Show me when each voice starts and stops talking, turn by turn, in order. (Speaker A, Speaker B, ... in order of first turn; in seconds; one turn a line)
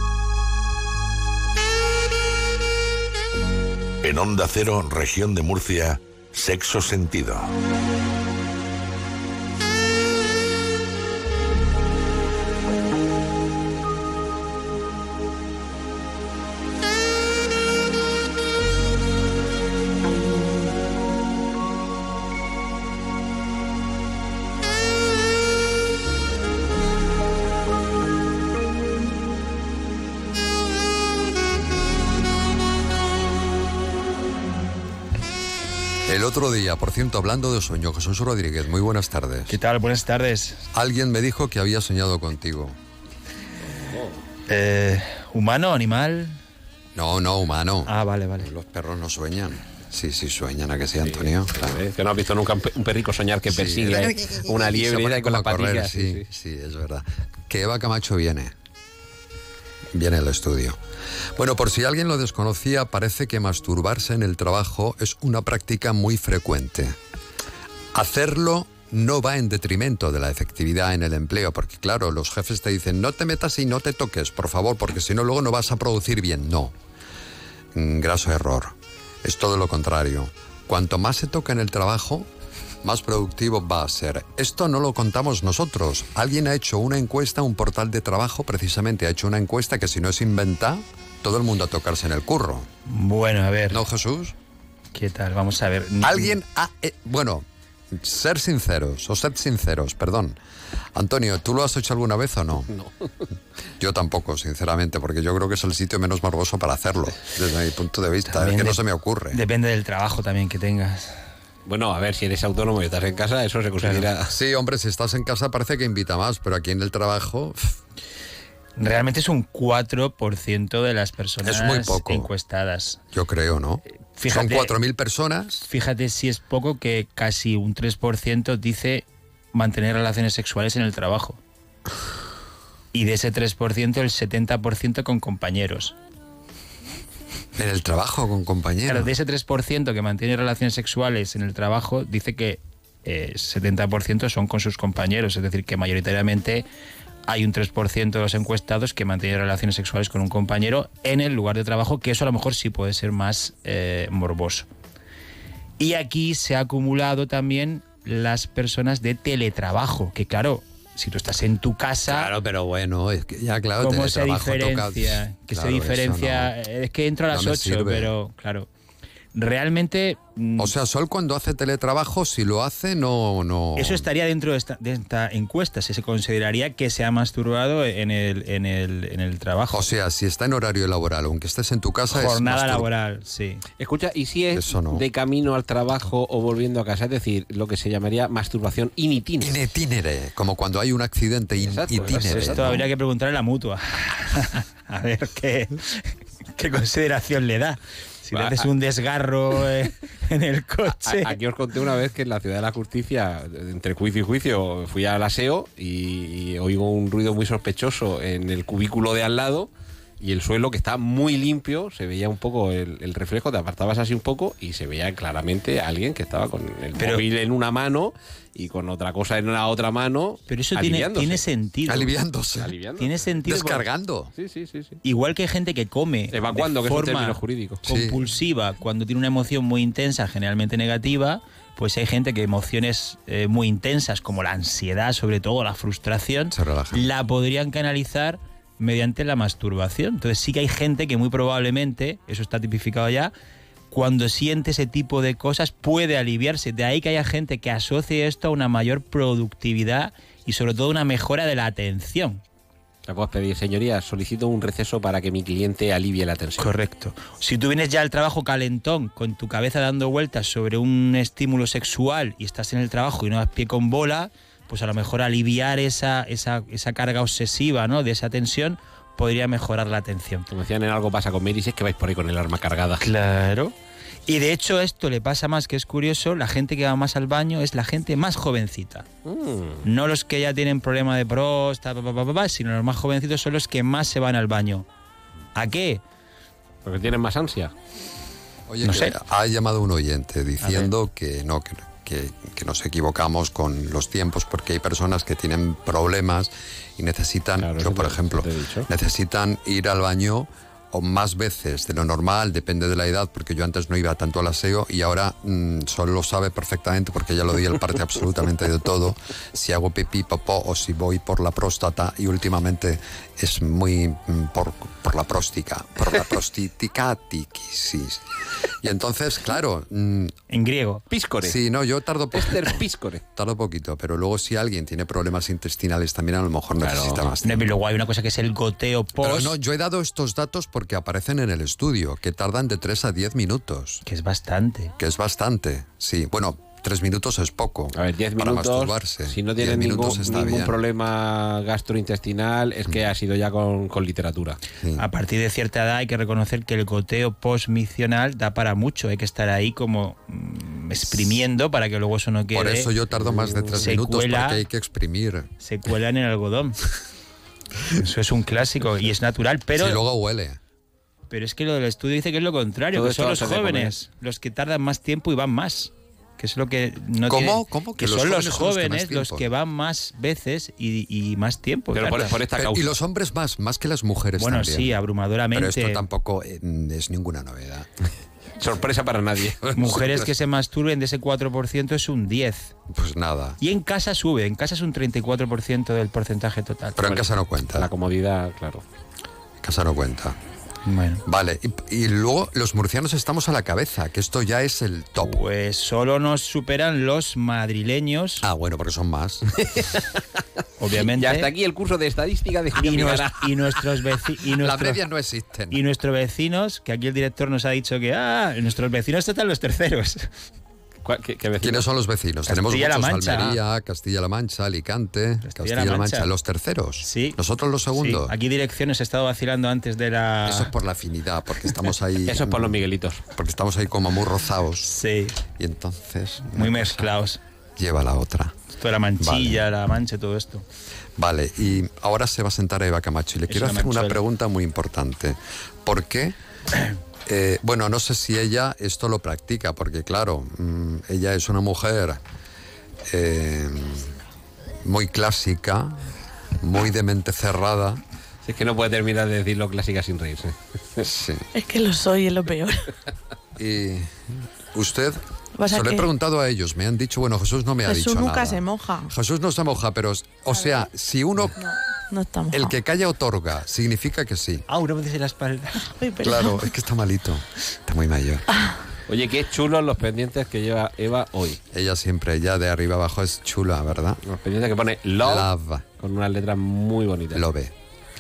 Speaker A: 4.0-7.5
Speaker B: 36.1-39.6
Speaker C: 39.5-40.6
Speaker B: 40.7-42.8
Speaker D: 43.9-44.2
Speaker C: 44.5-46.4
Speaker B: 47.0-51.8
Speaker C: 47.9-48.5
Speaker D: 51.0-56.2
Speaker B: 53.5-58.5
Speaker B: 59.9-60.8
Speaker B: 61.4-67.0
Speaker B: 67.9-76.7
Speaker B: 77.8-82.3
Speaker B: 82.8-92.7
Speaker C: 92.9-93.9
Speaker B: 93.7-94.3
Speaker C: 94.9-96.4
Speaker B: 96.0-100.4
Speaker B: 101.0-102.7
Speaker B: 103.8-109.4
Speaker C: 108.3-111.2
Speaker D: 111.6-114.3
Speaker C: 113.8-114.1
Speaker B: 114.3-117.8
Speaker C: 118.8-123.0
Speaker B: 121.4-122.3
Speaker B: 123.1-125.7
Speaker C: 124.1-124.8
Speaker C: 125.6-131.4
Speaker C: 132.9-136.0
Speaker B: 137.6-139.1
Speaker C: 138.8-146.7
Speaker C: 147.2-154.7
Speaker C: 155.8-162.3
Speaker B: 162.1-166.5
Speaker C: 163.8-168.7
Speaker B: 167.3-168.1
Speaker C: 169.3-170.8
Speaker B: 170.6-174.1
Speaker C: 173.8-179.8
Speaker B: 179.7-182.9
Speaker C: 182.1-183.7
Speaker D: 183.8-189.6
Speaker B: 184.5-185.1
Speaker B: 189.4-192.8
Speaker D: 191.6-192.8
Speaker C: 192.1-201.3
Speaker D: 198.3-198.7
Speaker D: 200.9-221.4
Speaker C: 217.0-217.2
Speaker C: 220.5-222.2
Speaker B: 221.8-222.8
Speaker D: 222.6-223.1
Speaker C: 223.0-223.8
Speaker B: 223.4-224.3
Speaker D: 224.3-225.0
Speaker C: 225.0-243.3
Speaker D: 226.3-227.8
Speaker B: 227.8-228.2
Speaker B: 236.5-237.1
Speaker C: 243.9-252.4
Speaker D: 253.1-256.7
Speaker C: 256.6-270.5
Speaker D: 270.5-273.1
Speaker C: 273.0-273.7
Speaker C: 274.3-279.1
Speaker D: 279.2-279.9
Speaker C: 279.8-284.9
Speaker C: 285.6-286.0
Speaker D: 286.9-287.7
Speaker B: 288.7-318.2
Speaker C: 288.8-289.2
Speaker C: 290.6-290.9
Speaker D: 297.6-298.9
Speaker B: 318.8-320.3
Speaker C: 320.5-321.1
Speaker D: 321.1-321.6
Speaker B: 321.4-327.8
Speaker D: 322.3-323.2
Speaker D: 326.8-327.3
Speaker C: 327.4-329.6
Speaker B: 329.2-334.0
Speaker C: 334.1-334.9
Speaker B: 335.0-340.8
Speaker D: 337.9-344.6
Speaker B: 344.8-345.1
Speaker C: 344.9-352.9
Speaker B: 352.5-355.5
Speaker D: 353.1-353.9
Speaker C: 353.8-354.6
Speaker C: 355.6-356.8
Speaker C: 357.9-360.0
Speaker B: 359.7-360.6
Speaker C: 361.3-372.3
Speaker D: 362.9-363.9
Speaker B: 367.2-369.5
Speaker D: 371.9-372.9
Speaker B: 372.5-375.0
Speaker C: 374.4-376.0
Speaker B: 375.5-377.9
Speaker D: 378.6-379.7
Speaker B: 379.6-380.3
Speaker C: 379.7-382.7
Speaker B: 382.9-383.6
Speaker C: 383.6-387.1
Speaker B: 387.0-387.9
Speaker D: 387.1-388.8
Speaker B: 389.6-390.4
Speaker C: 390.9-391.2
Speaker B: 391.2-395.4
Speaker C: 395.2-398.4
Speaker B: 398.4-399.4
Speaker D: 399.6-400.2
Speaker C: 400.8-401.5
Speaker D: 400.9-403.8
Speaker C: 402.8-405.0
Speaker B: 404.6-405.8
Speaker C: 405.7-410.3
Speaker D: 411.0-411.9
Speaker B: 411.6-418.3
Speaker C: 412.4-413.6
Speaker C: 415.4-416.3
Speaker C: 417.0-417.4
Speaker C: 417.9-420.7
Speaker B: 420.4-424.9
Speaker D: 422.3-423.2
Speaker C: 424.9-425.4
Speaker B: 425.6-427.1
Speaker C: 426.5-427.4
Speaker B: 427.8-428.5
Speaker C: 428.8-430.6
Speaker B: 429.2-429.7
Speaker B: 431.2-436.4
Speaker C: 433.5-434.2
Speaker B: 437.3-442.2
Speaker B: 443.1-444.1
Speaker B: 444.8-446.0
Speaker B: 446.6-448.0
Speaker D: 448.4-451.1
Speaker B: 451.0-451.4
Speaker E: 451.5-452.9
Speaker B: 453.6-461.6
Speaker E: 455.6-456.1
Speaker E: 457.9-459.1
Speaker E: 460.6-460.8
Speaker E: 461.6-462.8
Speaker B: 462.5-464.7
Speaker C: 464.7-465.9
Speaker E: 465.8-466.7
Speaker B: 466.2-468.4
Speaker D: 469.1-471.6
Speaker B: 471.7-474.2
Speaker D: 474.2-477.4
Speaker B: 475.2-475.9
Speaker B: 477.3-477.7